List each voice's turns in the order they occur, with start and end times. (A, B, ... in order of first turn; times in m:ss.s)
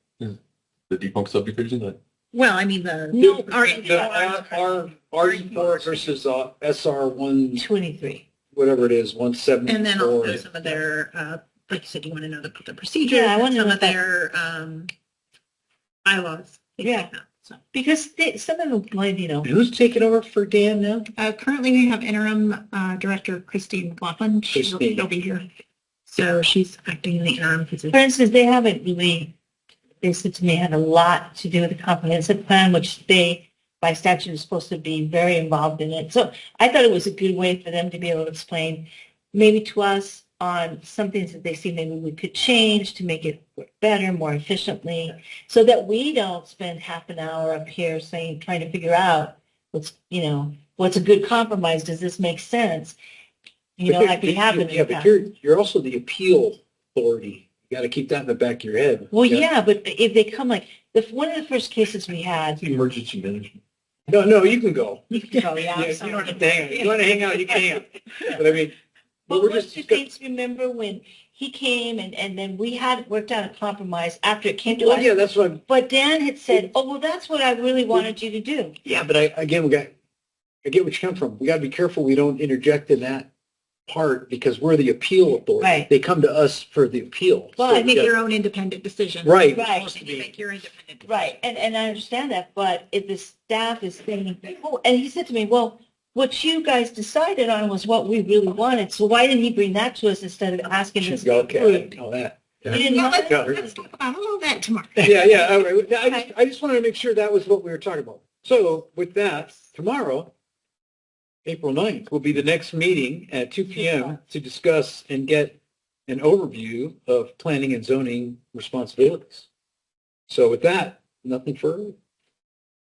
0:00.9-0:02.0 A
0:02.3-0:06.1 B
0:03.1-0:04.3 C
0:03.2-0:07.6 D
0:07.6-0:08.2 C
0:08.5-0:10.6 D
0:09.6-0:14.9 B
0:13.0-0:14.0 C
0:16.0-0:17.6 B
0:16.8-0:17.1 C
0:17.7-0:19.5 C
0:19.4-0:21.1 D
0:21.2-0:25.5 B
0:24.5-0:25.0 D
0:26.1-0:28.0 B
0:27.9-0:29.3 C
0:30.0-0:53.0 C
0:53.8-0:55.2 C
0:53.9-0:59.4 D
0:59.1-1:02.6 C
1:02.6-1:03.6 A
1:04.1-1:08.7 D
1:05.1-1:08.4 C
1:09.3-1:10.0 D
1:09.3-1:15.1 C
1:14.7-1:15.6 D
1:15.7-1:18.8 C
1:18.9-1:19.9 D
1:20.6-1:23.3 D
1:23.9-1:28.1 D
1:25.6-1:25.9 C
1:27.6-1:27.9 C
1:27.7-1:31.1 B
1:29.2-1:30.3 D
1:29.5-1:29.9 C
1:31.0-1:42.0 C
1:41.0-1:43.7 D
1:42.6-1:43.5 C
1:42.7-1:45.1 B
1:45.0-1:50.3 D
1:46.0-1:46.3 C
1:51.4-1:59.5 D
2:00.3-2:02.0 D